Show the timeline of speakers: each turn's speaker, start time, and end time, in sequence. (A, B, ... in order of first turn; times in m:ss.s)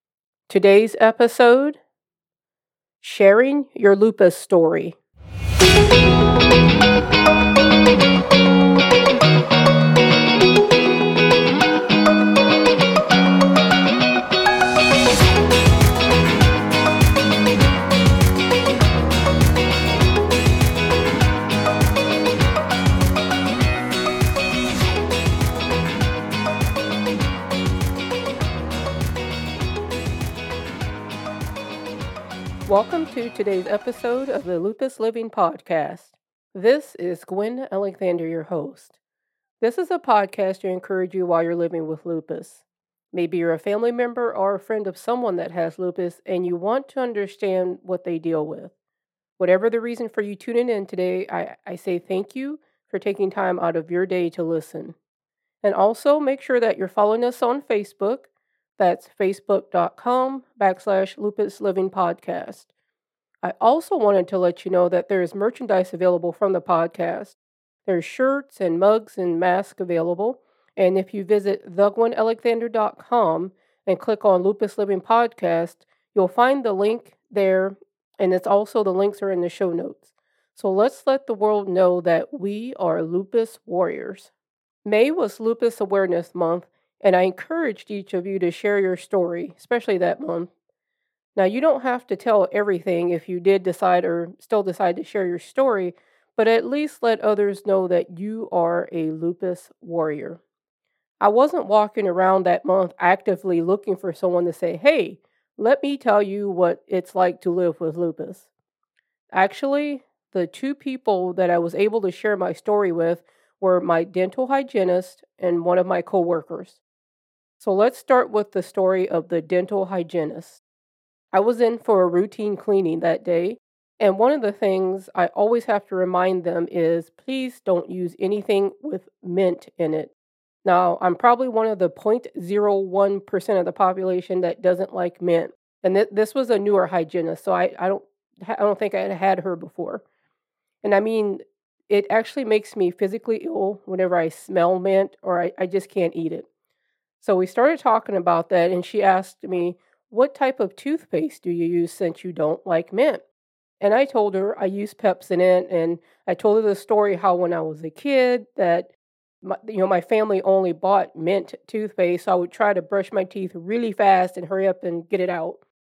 0:00.5-0:01.8 A
0:03.0-0:05.0 A
0:32.7-0:39.0 A
0:39.6-0:42.6 A
0:43.1-0:48.7 A
0:49.4-0:54.9 A
0:55.6-1:02.7 A
1:03.4-1:24.3 A
1:24.8-1:30.5 A
1:31.4-1:40.4 A
1:41.2-1:48.5 A
1:49.3-1:56.8 A
1:57.6-2:00.6 A
2:01.3-2:10.1 A
2:10.6-2:20.0 A
2:20.8-2:26.4 A
2:27.2-2:33.2 A
2:33.8-2:38.9 A
2:39.4-2:45.6 A